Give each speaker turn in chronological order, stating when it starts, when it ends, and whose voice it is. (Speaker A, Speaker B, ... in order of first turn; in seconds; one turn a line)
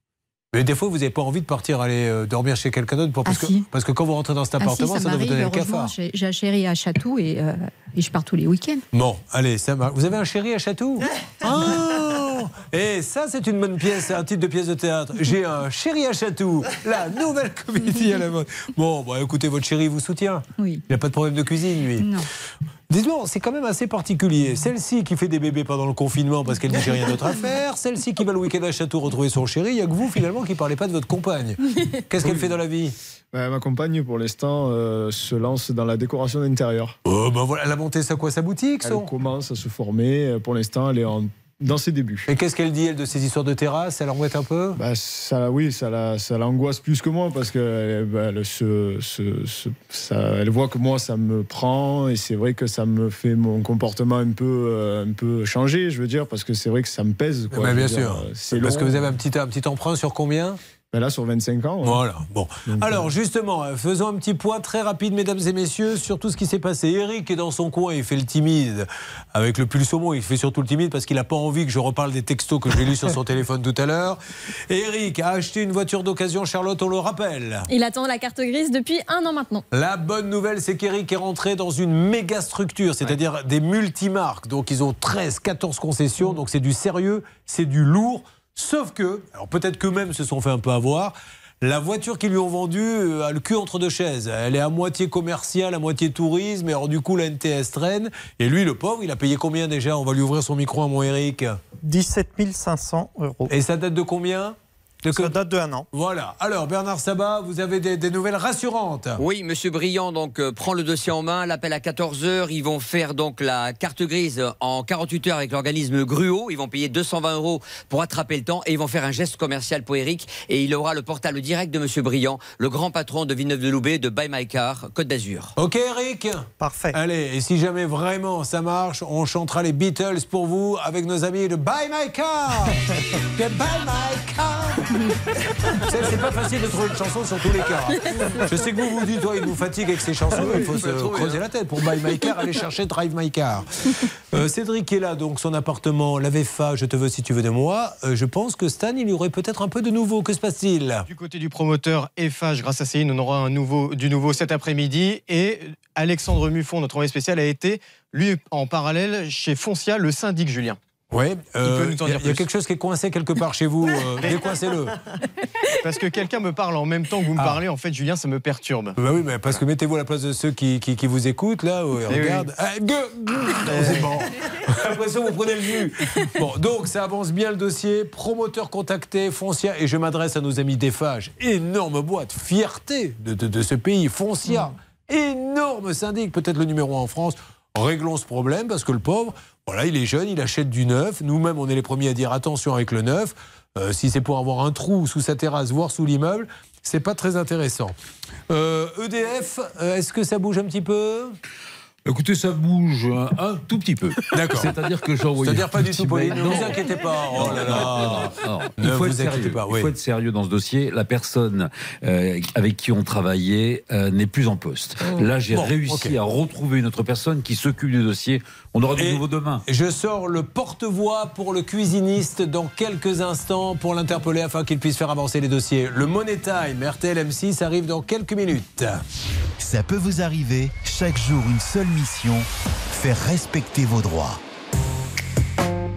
Speaker A: 0.5-5.9
Speaker B: 3.2-3.6
Speaker B: 4.6-8.8
Speaker A: 8.9-22.1
Speaker B: 20.6-20.8
Speaker B: 21.9-22.2
Speaker A: 22.9-32.9
Speaker B: 26.9-27.4
Speaker C: 33.3-37.0
Speaker A: 37.0-39.1
Speaker C: 38.8-42.3
Speaker A: 42.3-44.8
Speaker C: 44.8-59.0
Speaker A: 57.5-60.6
Speaker C: 60.9-62.0
Speaker A: 61.8-74.2
Speaker C: 62.7-63.1
Speaker A: 74.7-77.7
Speaker D: 77.7-79.6
Speaker A: 79.7-101.6
Speaker E: 101.8-103.5
Speaker A: 103.5-105.3
Speaker E: 105.1-105.9
Speaker A: 105.9-109.2
Speaker F: 109.2-125.5
Speaker A: 125.6-132.8
Speaker E: 126.6-127.0
Speaker A: 133.3-134.9
Speaker A: 135.8-151.1
Speaker G: 140.6-141.0
Speaker H: 151.1-160.8
Speaker A: 161.1-165.0
Speaker H: 161.6-162.5
Speaker H: 165.7-169.0
Speaker A: 167.3-167.6
Speaker A: 169.0-197.9
Speaker H: 172.1-172.5
Speaker H: 173.6-174.1
Speaker A: 198.5-201.4
Speaker G: 202.1-219.6
Speaker A: 204.3-204.8
Speaker A: 205.4-209.9
Speaker A: 215.5-216.2
Speaker A: 219.0-229.0
Speaker I: 229.6-234.4